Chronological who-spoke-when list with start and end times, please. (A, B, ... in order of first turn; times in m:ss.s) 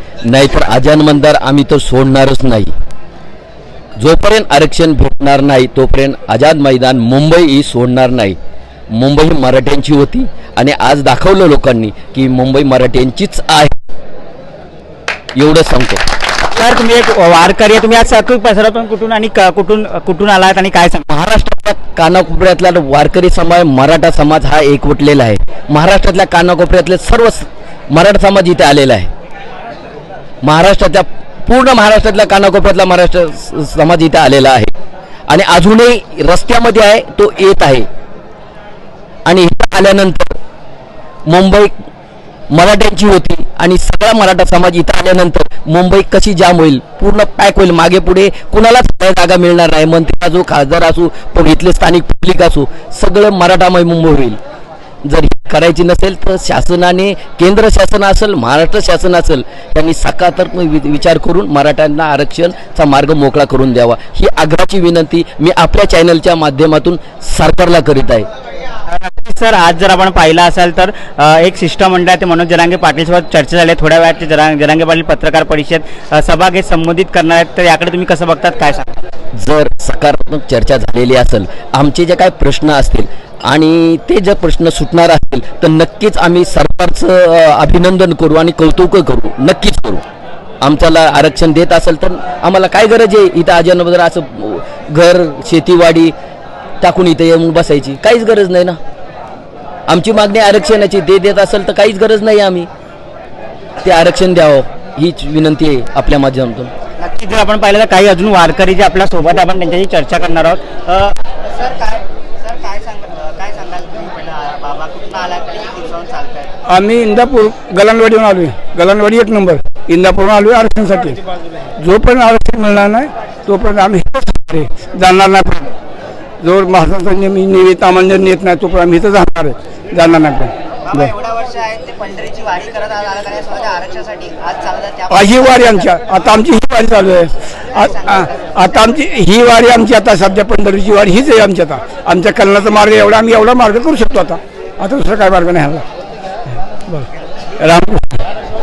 0:00.2-0:02.7 A
0:04.0-0:08.4 A
0:08.9-0:13.7 A
0:15.4-0:16.0 A
0:16.5-0:21.1 B
0:21.1-0:29.1 A
0:30.4-0:34.7 A
0:35.3-0:37.9 A
0:39.2-0:40.4 A
0:41.3-0:41.7 A
0:42.5-0:54.4 A
0:55.0-1:08.3 A
1:08.9-1:19.0 B
1:19.3-1:30.0 A
1:30.6-1:36.1 A
1:36.8-1:38.8 A
1:39.9-1:42.7 A
1:43.8-1:46.7 A
1:47.0-1:56.5 B
1:56.7-2:01.2 C
2:01.8-2:05.7 C
2:06.4-2:11.1 C
2:10.8-2:16.0 B
2:15.1-2:25.8 C
2:17.8-2:18.5 B
2:27.6-2:28.2 C